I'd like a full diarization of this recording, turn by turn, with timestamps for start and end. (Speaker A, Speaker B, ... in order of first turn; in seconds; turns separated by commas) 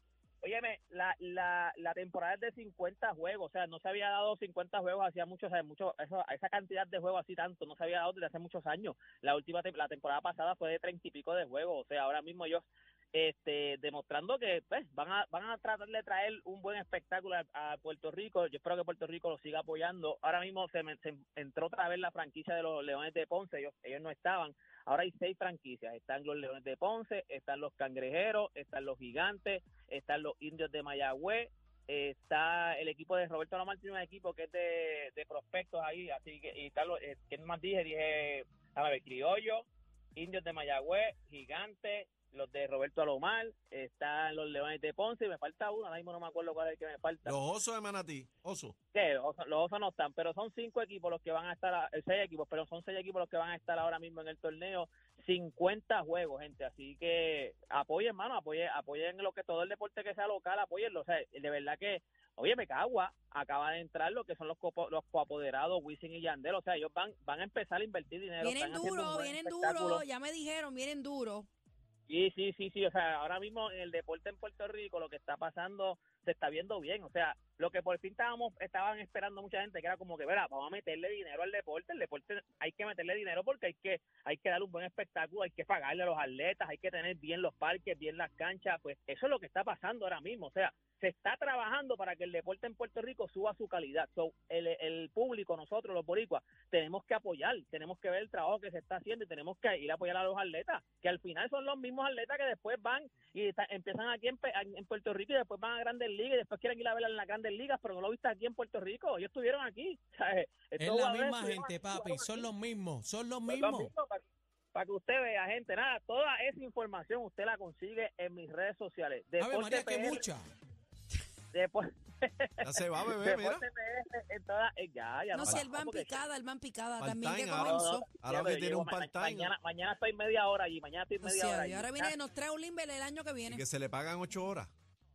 Speaker A: 0.4-47.4, Speaker B: 47.2-48.7, Speaker A: 48.9-70.0, Speaker C: 68.4-71.5, Speaker A: 72.1-112.5, Speaker D: 110.8-113.9, Speaker A: 113.5-114.2, Speaker A: 114.7-120.2, Speaker D: 119.4-120.4, Speaker A: 121.5-126.2, Speaker B: 122.6-123.6, Speaker C: 125.3-128.1, Speaker B: 125.4-125.7, Speaker B: 127.0-129.5, Speaker A: 127.6-132.1, Speaker C: 131.2-133.6, Speaker B: 133.4-134.7